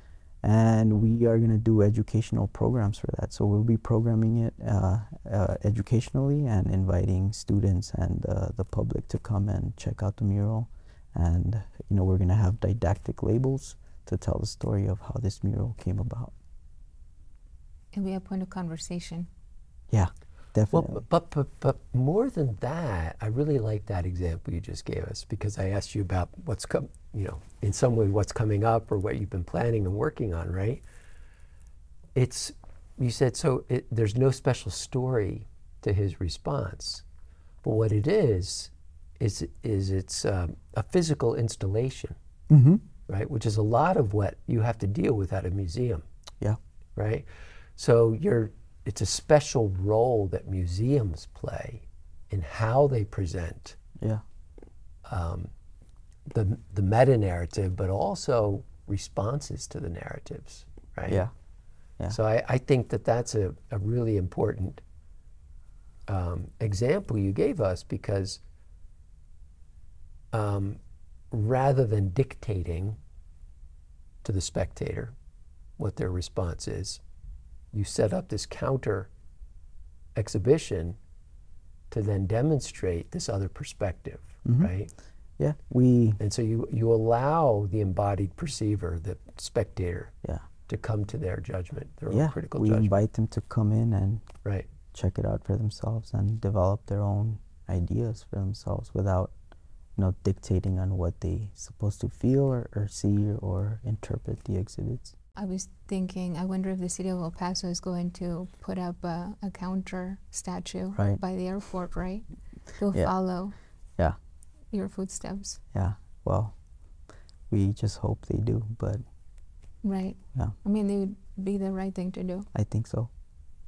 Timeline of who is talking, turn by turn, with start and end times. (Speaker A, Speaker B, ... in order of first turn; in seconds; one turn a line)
Speaker A: 0.4-16.3
Speaker B: 17.9-19.3
Speaker A: 19.9-21.0
Speaker C: 20.7-30.8
Speaker C: 32.1-37.0
Speaker C: 37.6-42.2
Speaker A: 42.5-42.8
Speaker C: 43.1-46.0
Speaker C: 47.0-47.2
Speaker C: 47.8-53.8
Speaker C: 55.1-55.5
Speaker C: 56.3-61.3
Speaker A: 61.1-61.3
Speaker C: 62.1-64.8
Speaker C: 66.1-68.4
Speaker C: 70.3-70.8
Speaker C: 71.3-73.0
Speaker C: 74.2-75.1
Speaker C: 75.8-77.0
Speaker C: 77.7-79.1
Speaker C: 80.2-81.0
Speaker C: 81.9-84.9
Speaker A: 84.5-84.7
Speaker A: 85.4-86.2
Speaker C: 86.2-90.2
Speaker C: 90.7-93.0
Speaker A: 92.1-94.3
Speaker A: 94.9-99.3
Speaker A: 100.0-105.1
Speaker B: 105.4-113.6
Speaker A: 111.0-111.2
Speaker B: 114.7-115.6
Speaker A: 115.7-116.5
Speaker A: 117.5-119.0
Speaker B: 119.8-122.5
Speaker A: 122.5-123.1